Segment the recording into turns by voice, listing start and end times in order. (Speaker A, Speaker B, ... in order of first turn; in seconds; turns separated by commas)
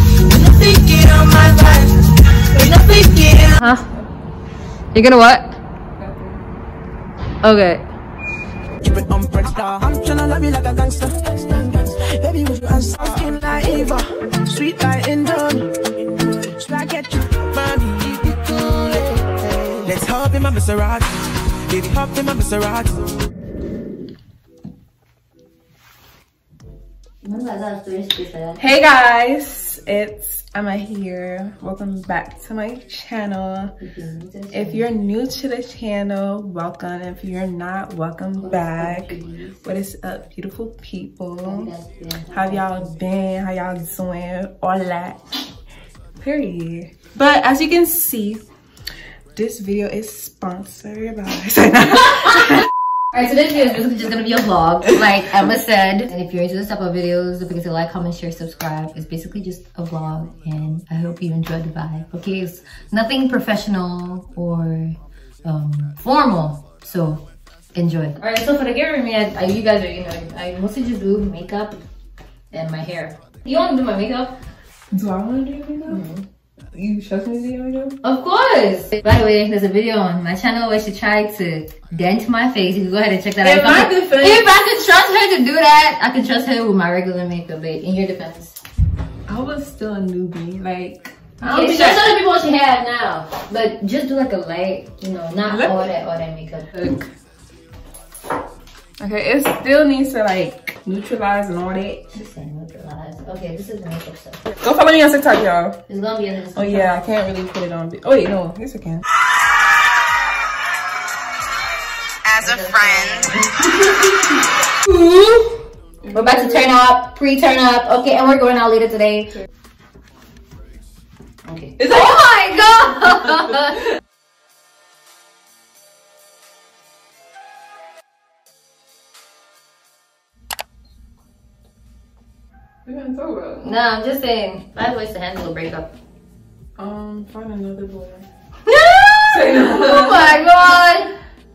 Speaker A: 0.3-2.1, Speaker B: 2.5-3.9, Speaker C: 3.6-4.1, Speaker B: 4.9-5.6, Speaker C: 6.0-6.5, Speaker B: 7.4-7.9, Speaker A: 8.8-15.7, Speaker A: 16.4-23.0, Speaker B: 27.2-28.6, Speaker C: 28.6-33.7, Speaker B: 33.8-34.9, Speaker C: 34.5-41.7, Speaker B: 38.4-39.6, Speaker B: 41.4-42.9, Speaker C: 42.3-45.2, Speaker C: 46.2-48.4, Speaker C: 49.3-52.6, Speaker B: 53.1-67.2, Speaker B: 67.7-71.8, Speaker B: 72.5-74.3, Speaker C: 74.9-76.0, Speaker B: 75.9-76.2, Speaker C: 76.7-78.0, Speaker B: 78.0-88.6, Speaker C: 83.4-84.5, Speaker C: 89.3-92.2, Speaker B: 91.4-96.7, Speaker C: 95.5-95.9, Speaker C: 96.7-97.1, Speaker C: 99.0-102.1, Speaker B: 102.1-104.5, Speaker C: 104.6-105.8, Speaker B: 105.9-107.1, Speaker C: 106.5-109.0, Speaker B: 112.4-114.1, Speaker B: 114.8-119.4, Speaker C: 116.0-116.7, Speaker B: 121.4-123.8, Speaker C: 121.8-122.2, Speaker C: 132.8-133.7, Speaker B: 133.6-135.9, Speaker C: 136.8-138.3, Speaker B: 138.7-141.1, Speaker C: 139.3-140.4